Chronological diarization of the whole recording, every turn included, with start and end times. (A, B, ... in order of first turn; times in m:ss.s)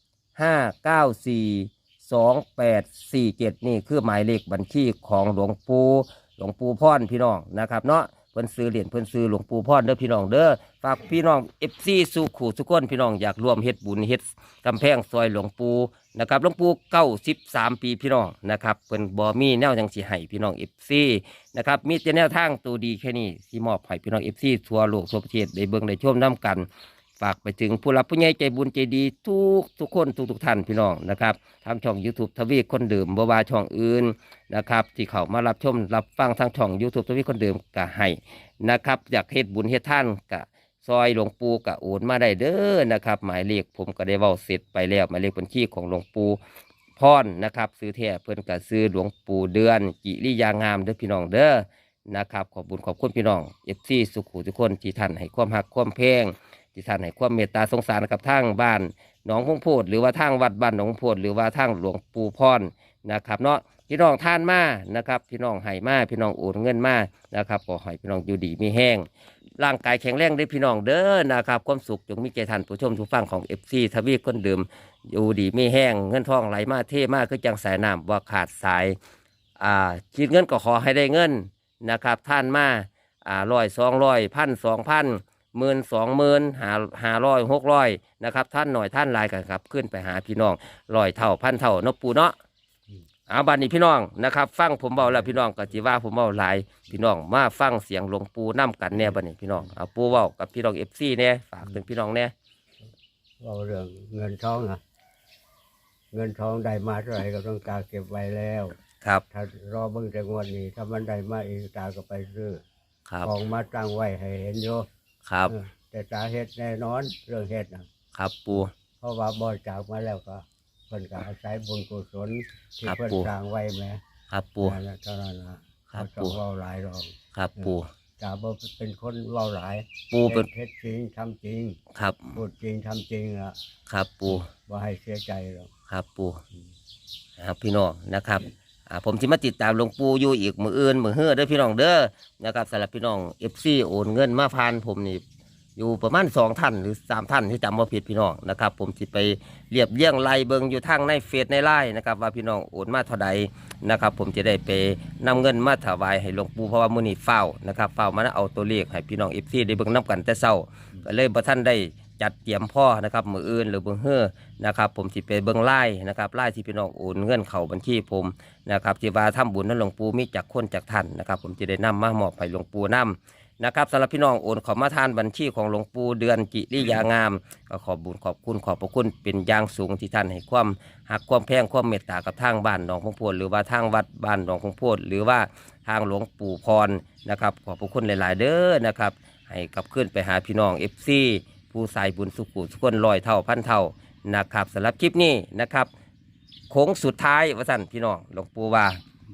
0:00.4-0:26.7 A
0:27.2-0:46.4 A
0:47.0-1:09.1 A
1:09.6-1:19.0 A
1:19.6-1:32.3 A
1:33.3-1:42.3 A
1:43.4-1:44.8 B
1:46.1-1:48.7 B
1:49.3-1:52.6 B
1:53.2-1:54.8 B
1:55.3-1:55.5 A
1:55.5-1:57.8 B
1:58.1-1:58.7 A
1:59.0-2:04.0 B
2:02.8-2:03.3 A
2:04.3-2:04.8 A
2:04.6-2:11.8 B
2:05.9-2:06.4 A
2:07.3-2:07.9 A
2:10.1-2:10.5 A
2:11.9-2:12.4 A
2:12.3-2:13.6 B
2:13.9-2:14.5 A
2:14.3-2:15.7 B
2:15.9-2:16.4 A
2:17.4-2:25.2 A
2:25.8-3:15.9 A
3:16.7-3:19.0 A